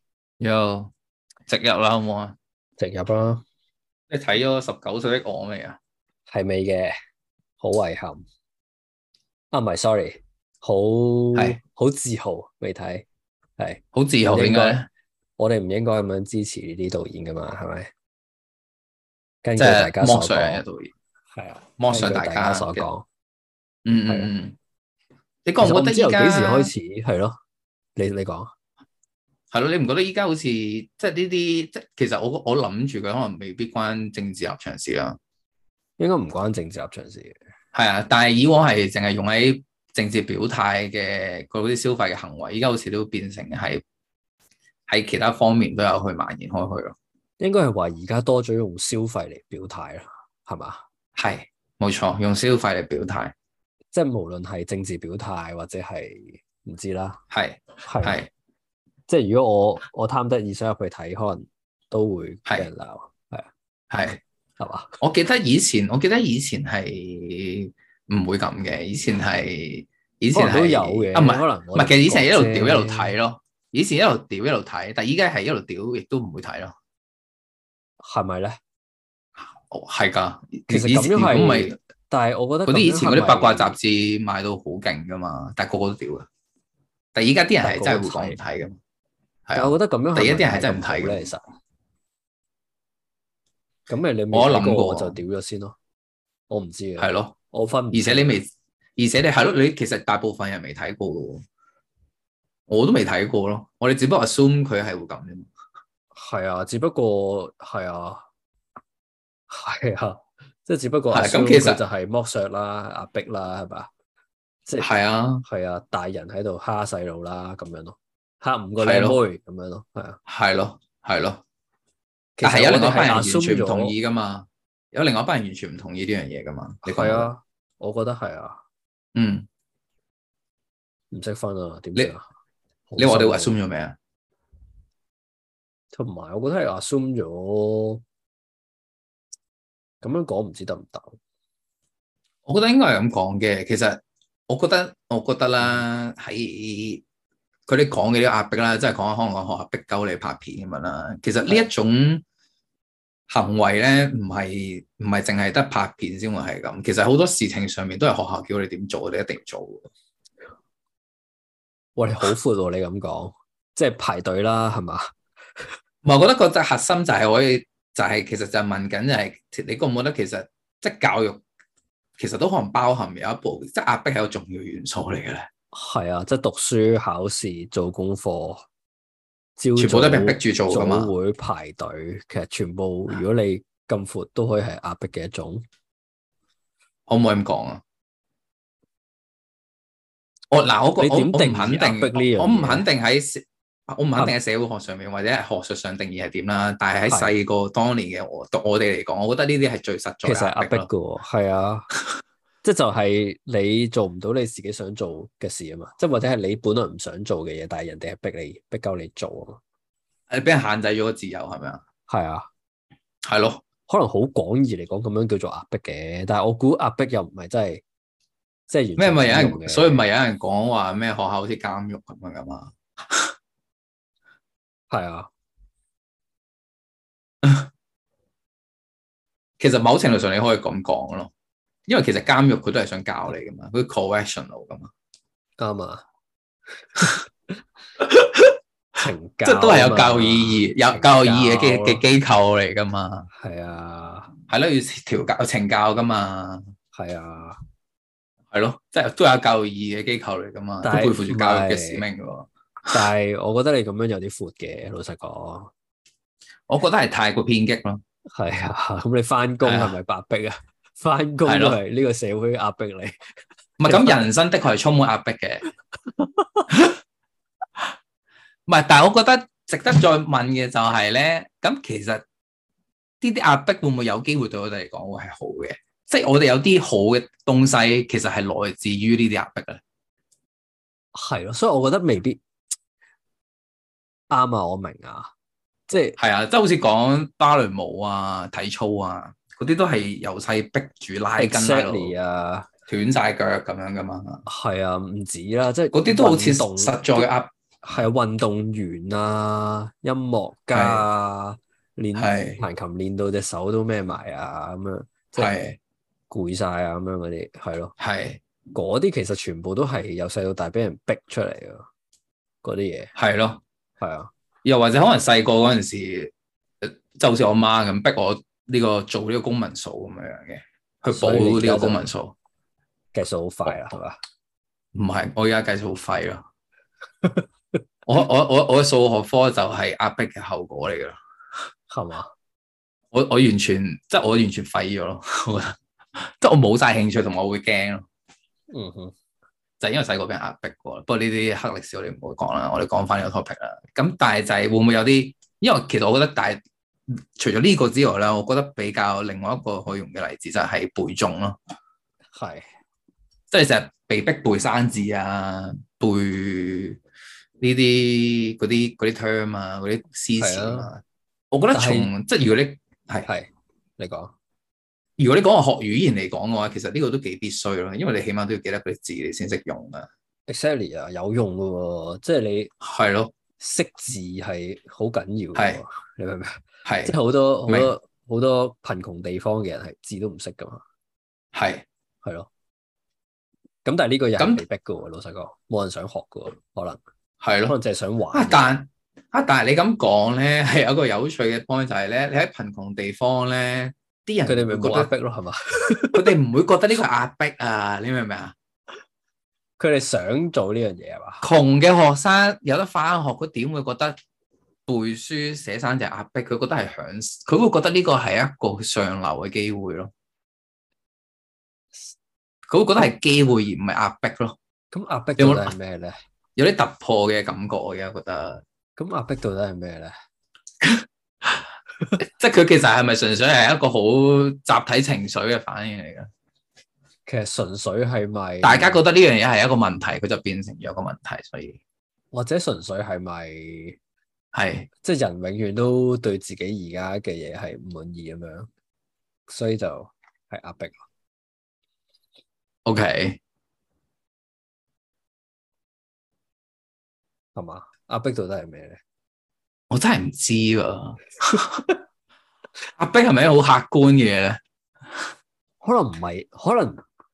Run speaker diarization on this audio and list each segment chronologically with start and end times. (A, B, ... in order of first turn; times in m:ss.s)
0:00.4-0:00.9 A
0:01.5-0:02.4 A
0:02.8-0:03.4 B
0:04.1-0:05.8 A
0:06.3-0:06.9 B
0:07.6-0:08.2 B
0:09.5-0:13.0 B
0:13.6-0:14.8 B
0:13.9-0:14.9 A
0:15.4-0:17.9 B
0:19.4-0:20.6 B
0:19.6-0:20.9 A
0:21.3-0:23.0 B
0:21.8-0:22.8 A
0:23.8-0:24.6 A
0:25.4-0:26.7 A
0:25.6-0:27.4 B
0:28.0-0:28.5 B
0:29.5-0:35.2 A
0:36.0-0:37.4 B
0:37.7-0:43.8 A
0:44.9-0:47.0 A
0:47.4-0:50.8 B
0:51.2-0:53.3 A
0:53.9-0:57.2 B
0:57.3-0:58.3 A
0:57.8-0:58.2 B
0:59.1-1:03.5 B
1:03.9-1:04.2 A
1:04.6-1:04.9 B
1:05.0-1:16.7 A
1:10.3-1:13.1 B
1:18.0-1:18.6 B
1:19.7-1:21.8 A
1:20.7-1:23.8 B
1:22.6-1:26.3 A
1:27.1-1:28.8 A
1:27.6-1:28.4 B
1:29.5-1:31.3 A
1:29.5-1:31.4 B
1:33.9-1:35.8 B
1:34.3-1:35.2 A
1:36.5-1:38.4 B
1:37.0-1:37.4 A
1:37.9-1:41.4 A
1:42.7-1:45.5 A
1:46.1-1:48.2 B
1:49.5-1:53.9 B
1:51.1-1:51.8 A
1:54.7-2:00.2 B
1:54.8-1:55.4 A
1:58.8-1:59.2 A
2:00.3-2:01.4 A
2:02.4-2:03.9 B
2:02.4-2:07.3 A
2:06.8-2:08.6 B
2:09.1-2:09.5 A
2:11.1-2:12.2 B
2:12.9-2:13.5 B
2:13.0-2:13.9 A
2:15.9-2:18.0 B
2:20.0-2:21.2 B
2:22.4-2:27.0 A
2:27.7-2:32.2 A
2:33.3-2:39.9 A
2:42.0-2:45.1 B
2:46.0-2:51.4 A
2:52.2-2:55.5 A
2:55.7-2:58.6 B
2:59.6-3:05.6 B
2:59.8-3:01.1 A
3:07.1-3:07.8 A
3:10.5-3:20.9 A
3:11.0-3:12.8 B
3:17.1-3:17.3 B
3:20.2-3:21.9 B
3:22.6-3:29.6 B
3:30.3-3:31.8 A
3:32.1-3:32.5 B
3:33.3-3:33.6 A
3:33.9-3:37.8 B
3:38.7-3:40.0 B
3:39.0-3:43.3 A
3:44.9-3:45.3 B
3:49.6-3:51.3 A
3:51.9-3:54.9 A
3:55.6-3:56.0 B
3:58.0-3:58.5 A
3:59.0-4:02.0 B
3:59.4-4:03.3 A
4:03.3-4:04.3 B
4:04.5-4:06.7 A
4:06.9-4:07.6 B
4:08.5-4:13.0 A
4:10.8-4:12.0 B
4:12.9-4:15.7 B
4:16.7-4:18.0 A
4:18.3-4:24.3 B
4:19.6-4:20.0 A
4:21.4-4:21.8 A
4:23.8-4:25.6 A
4:28.7-4:32.2 A
4:33.2-4:39.8 A
4:41.1-4:42.4 B
4:44.3-4:45.3 B
4:45.9-4:46.2 B
4:46.2-4:52.1 A
4:51.4-4:52.7 B
4:52.9-4:54.4 A
4:54.5-4:57.3 B
4:55.9-4:58.0 A
4:57.8-5:05.5 B
5:00.7-5:01.1 A
5:02.1-5:02.6 A
5:05.4-5:05.8 A
5:06.3-5:07.9 B
5:08.0-5:08.4 A
5:08.7-5:11.9 B
5:12.6-5:13.1 B
5:13.2-5:13.6 A
5:14.0-5:14.3 B
5:14.6-5:16.3 A
5:16.8-5:22.3 A
5:21.1-5:22.1 B
5:23.1-5:24.2 B
5:24.9-5:26.4 A
5:28.1-5:31.2 A
5:31.9-5:32.3 B
5:33.1-5:38.0 A
5:38.7-5:39.1 B
5:39.8-5:51.6 A
5:52.4-5:52.7 B
5:53.5-5:57.0 A
5:57.6-6:03.3 A
6:00.4-6:00.9 B
6:01.7-6:02.1 B
6:03.2-6:04.3 B
6:05.2-6:10.1 A
6:10.5-6:12.7 B
6:12.8-6:13.3 A
6:13.6-6:20.8 B
6:16.8-6:17.2 A
6:17.7-6:17.9 A
6:21.5-6:21.8 A
6:22.2-6:22.5 B
6:23.8-6:27.0 B
6:24.4-6:24.6 A
6:27.4-6:27.7 A
6:27.7-6:28.7 B
6:28.3-6:35.1 A
6:34.4-6:36.3 B
6:36.1-6:38.5 A
6:39.8-6:41.4 B
6:41.4-6:44.2 A
6:44.9-6:50.1 A
6:52.7-6:54.6 A
6:54.9-6:56.1 B
6:55.4-6:55.7 A
6:56.6-6:58.6 A
6:59.0-7:00.1 B
7:00.8-7:01.5 A
7:02.2-7:06.3 A
7:07.3-7:09.0 B
7:08.6-7:11.8 A
7:12.3-7:14.0 B
7:14.5-7:14.9 A
7:15.0-7:18.7 B
7:19.5-7:21.0 B
7:22.8-7:23.4 A
7:27.5-7:29.0 B
7:29.9-7:31.8 A
7:33.0-7:34.6 A
7:35.8-7:37.0 B